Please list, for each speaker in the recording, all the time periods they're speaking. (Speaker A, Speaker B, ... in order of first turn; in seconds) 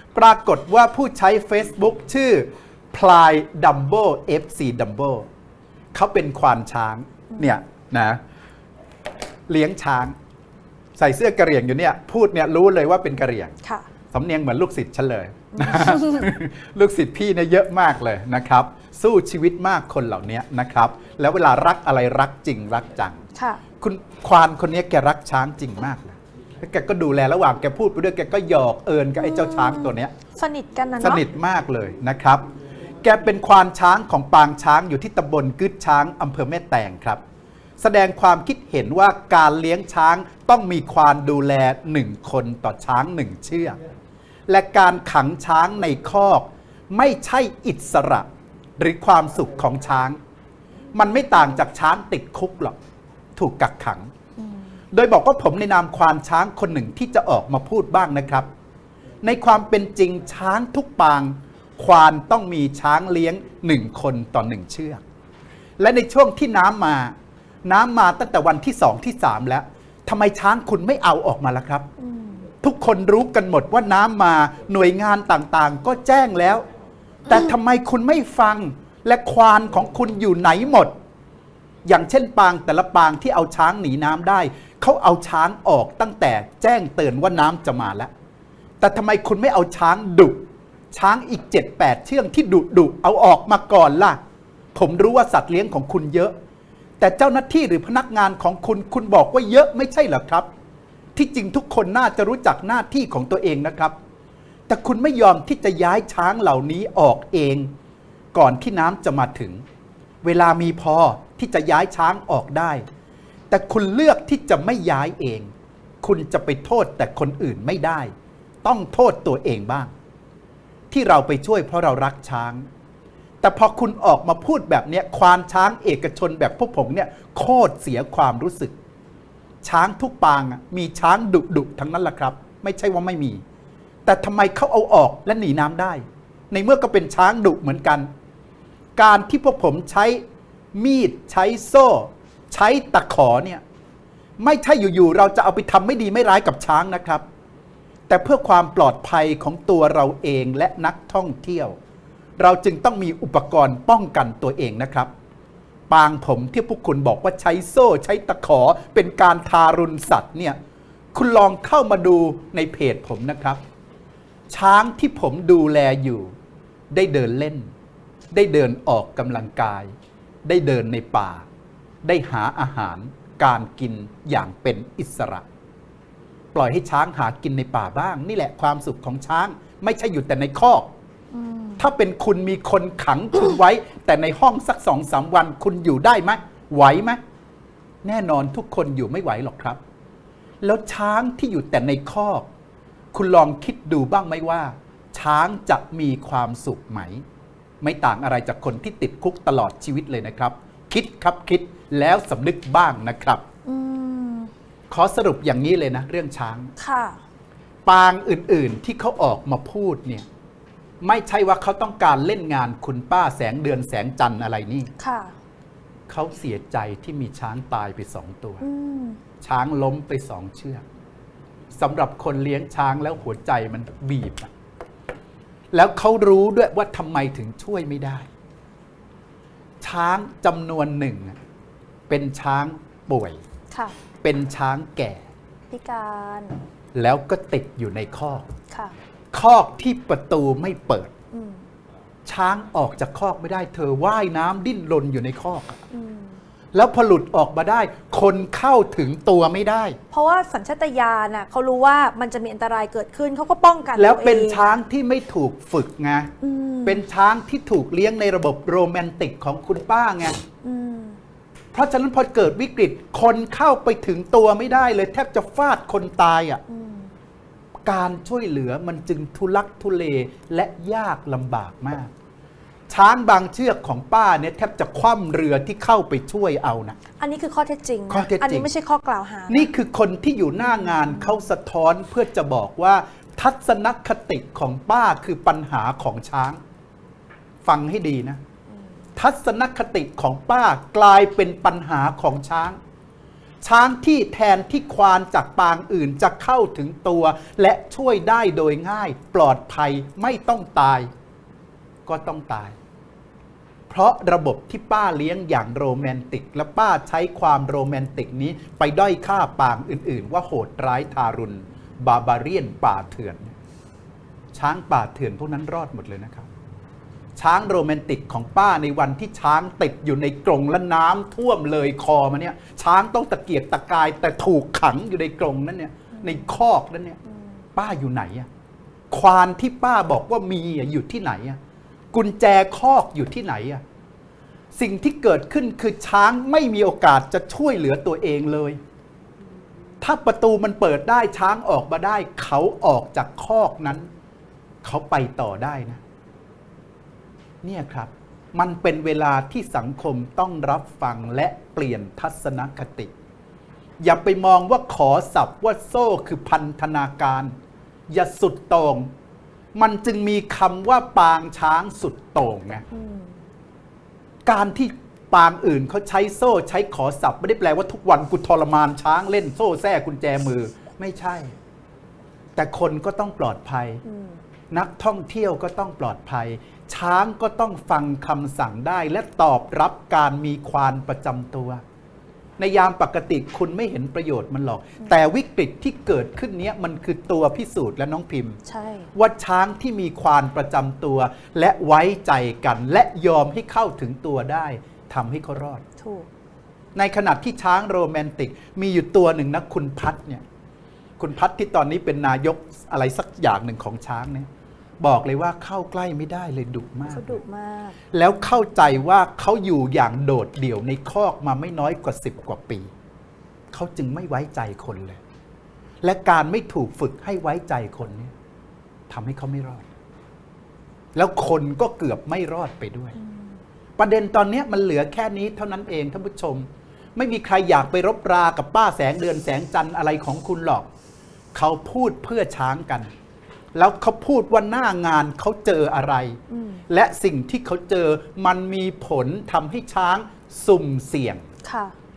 Speaker A: 0.1-5.3, 5.9-8.2, 9.5-10.2, 11.0-13.6, 14.1-23.2, 23.8-30.1, 31.0-32.5, 33.0-37.2, 37.8-43.8, 44.5-48.3, 48.8-50.2, 50.9-52.8, 53.4-54.1, 54.9-58.5, 59.2-65.0, 65.8-71.9, 72.6-76.7, 77.3-81.0, 81.9-88.1, 88.8-94.2, 94.8-96.3, 97.0-100.5, 101.2-104.0, 104.7-107.7, 108.3-109.6, 110.2-112.8, 113.5-115.5, 116.0-118.1, 118.6-119.9, 120.9-122.7, 123.4-128.8, 129.6-133.4, 134.1-138.1, 139.0-140.2, 140.7-143.6, 144.4-147.2, 148.1-151.8, 152.4-155.1, 155.9-160.6, 161.1-163.6, 164.5-166.3, 166.9-167.7, 168.3-169.9, 170.4-171.5, 172.0-175.4, 176.5-180.9, 181.8-187.2, 188.0-189.8, 190.6-192.5, 193.1-197.2, 197.8-203.4, 204.9-206.7, 207.9-210.3, 211.0-214.9, 216.1-218.6, 219.4-220.8, 221.7-224.5, 225.7-228.3, 229.8-231.4, 232.1-233.4, 234.2-235.3, 236.9-238.5, 239.3-241.1, 242.3-245.8, 246.7-250.0, 254.0-256.3, 256.8-260.4, 261.7-266.6, 267.9-272.1, 272.9-277.0, 278.1-278.7, 279.5-286.6, 287.6-288.4, 289.2-292.8, 293.6-301.1, 302.1-302.8, 303.9-313.6, 314.5-316.5, 317.4-327.2, 327.8-328.5, 329.1-331.6, 332.1-333.8, 334.7-338.8, 340.0-344.1, 344.8-346.0, 347.6-353.1, 354.0-357.5, 358.1-359.1, 359.8-362.9, 364.5-371.6, 372.6-374.0, 374.7-381.8, 382.6-388.6, 389.1-395.8, 397.0-400.4, 401.2-404.5, 405.0-407.4, 408.1-412.9, 413.7-415.2, 416.0-418.3, 419.1-419.9, 421.1-423.2, 424.0-430.9, 431.5-433.1, 433.8-441.5
Speaker B: 15.6-16.3, 23.4-23.6, 29.2-31.2, 54.4-54.7, 72.0-72.5, 181.3-181.8, 203.7-204.5, 206.8-207.2, 215.0-215.3, 218.6-219.2, 235.7-236.6, 241.3-241.6, 245.9-246.4, 250.1-254.6, 256.4-257.0, 260.6-261.2, 266.7-267.1, 277.2-279.7, 280.6-281.4, 326.1-326.6, 362.9-363.4, 374.1-374.4, 388.7-389.1, 396.0-396.3, 407.1-408.0, 423.2-423.5, 436.5-436.8, 441.6-441.9